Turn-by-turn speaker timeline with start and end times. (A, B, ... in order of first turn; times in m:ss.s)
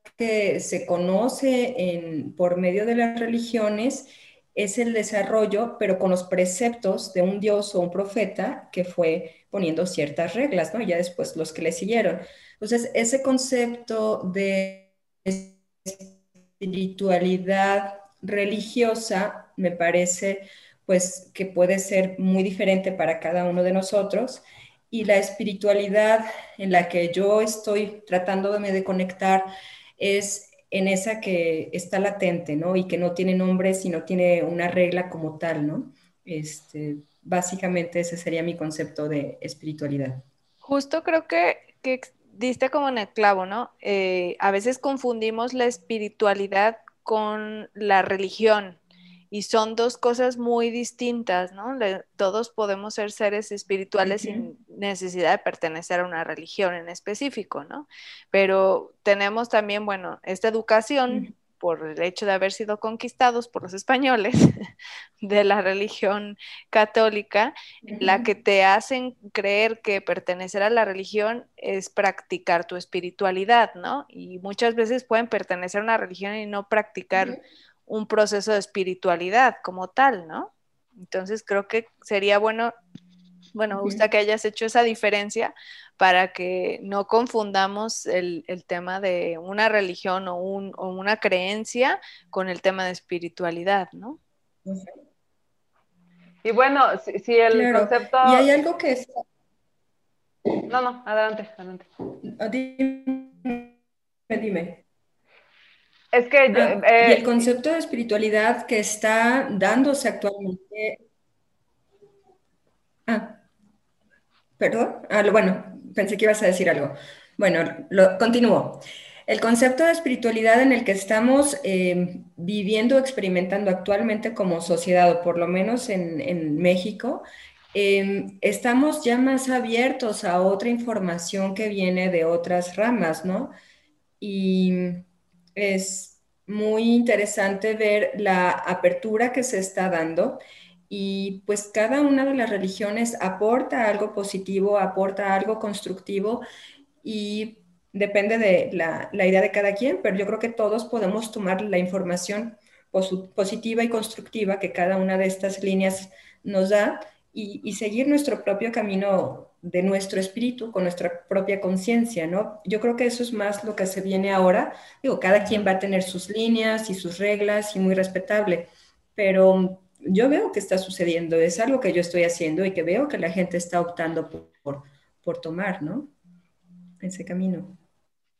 0:00.2-0:40.2 A
0:40.6-0:48.8 B
0:49.3-1:04.5 B
0:54.1-0:54.4 A
1:05.2-1:17.4 B
1:07.8-1:08.2 A
1:17.9-1:22.7 B
1:23.5-1:34.2 B
1:23.7-1:24.0 A
1:34.6-1:34.9 A
1:36.4-1:38.5 C
1:37.5-1:39.2 A
1:40.7-1:41.9 C
1:42.2-1:43.8 A
1:44.3-1:44.8 A
1:46.1-1:47.4 C
1:46.5-1:51.0 A
1:53.1-1:53.4 A
1:54.6-2:13.5 A
2:14.2-2:26.4 A
2:27.0-2:56.1 A
2:57.0-2:57.8 A